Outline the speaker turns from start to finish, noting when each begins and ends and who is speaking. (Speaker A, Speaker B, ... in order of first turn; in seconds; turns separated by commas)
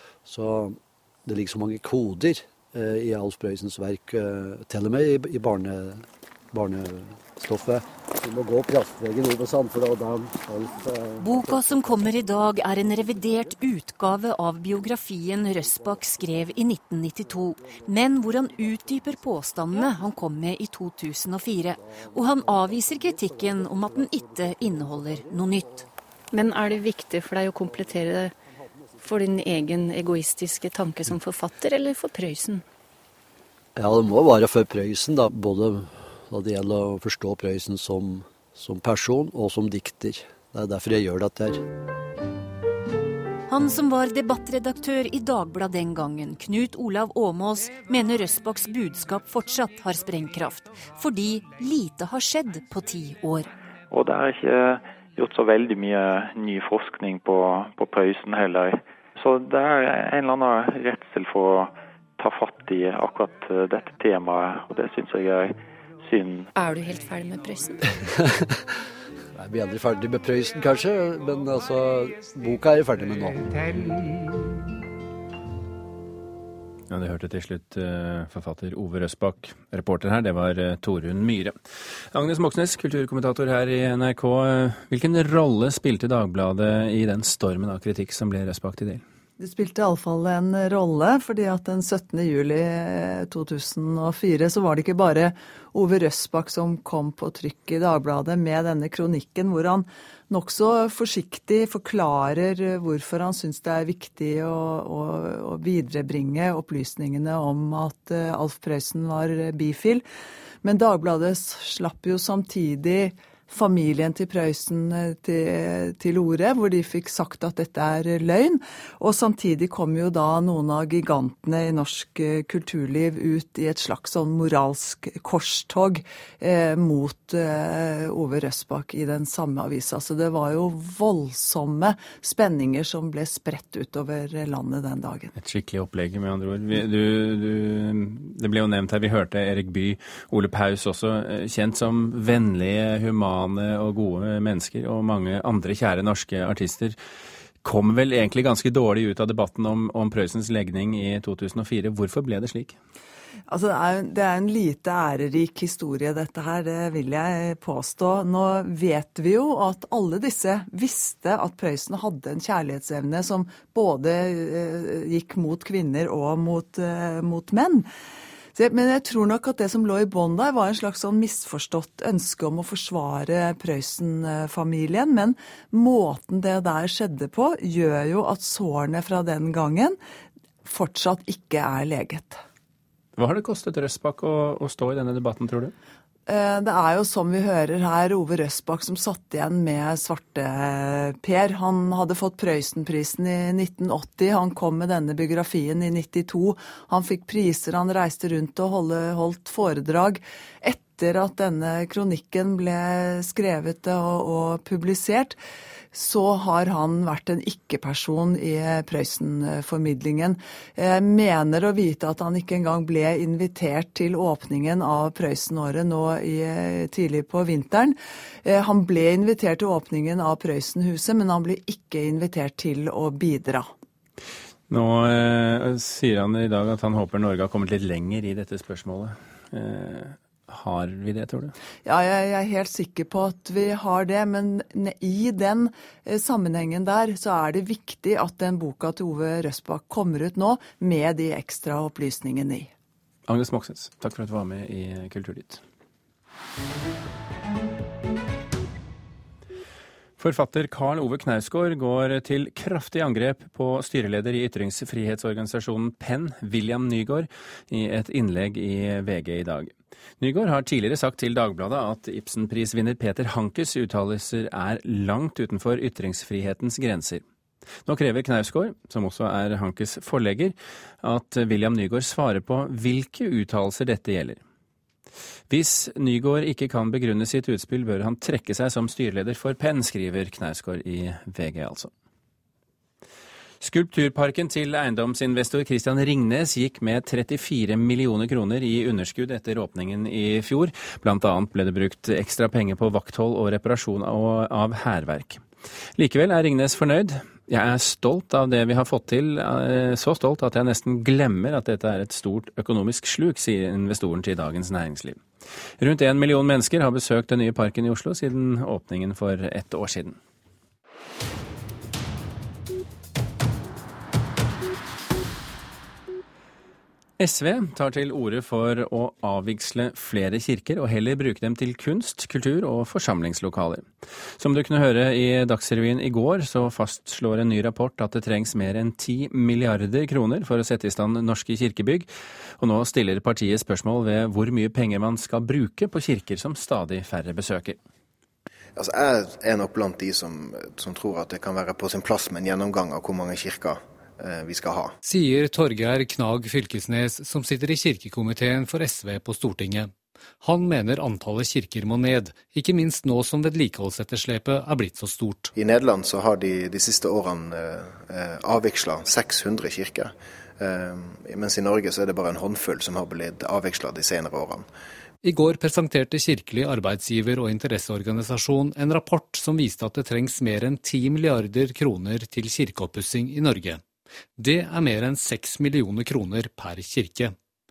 Speaker A: 0.2-12.2, Speaker B: 11.2-25.9, Speaker A: 19.7-20.0, Speaker A: 21.8-25.9, Speaker C: 26.3-28.3, Speaker C: 29.0-32.6, Speaker A: 33.8-41.6, Speaker B: 43.5-53.5, Speaker D: 53.9-66.5, Speaker C: 66.5-67.8, Speaker A: 68.0-68.6, Speaker A: 69.3-73.9, Speaker E: 76.9-81.5, Speaker E: 82.1-89.0, Speaker F: 89.4-110.0, Speaker F: 110.6-135.3, Speaker E: 135.3-147.0, Speaker E: 147.6-152.8, Speaker F: 153.5-167.8, Speaker F: 168.5-180.0, Speaker F: 180.6-182.4, Speaker E: 183.2-185.7, Speaker F: 186.3-205.4, Speaker F: 205.9-223.7, Speaker E: 224.7-231.5, Speaker F: 231.8-242.7, Speaker E: 243.3-245.6, Speaker E: 250.2-267.2, Speaker E: 267.9-274.4, Speaker E: 275.5-281.9, Speaker E: 283.6-295.4, Speaker E: 296.0-305.2, Speaker E: 305.8-310.2, Speaker E: 317.2-323.9, Speaker E: 324.4-337.8, Speaker G: 338.8-344.9, Speaker H: 345.0-355.5, Speaker G: 355.5-364.6, Speaker H: 365.2-373.8, Speaker H: 374.4-377.4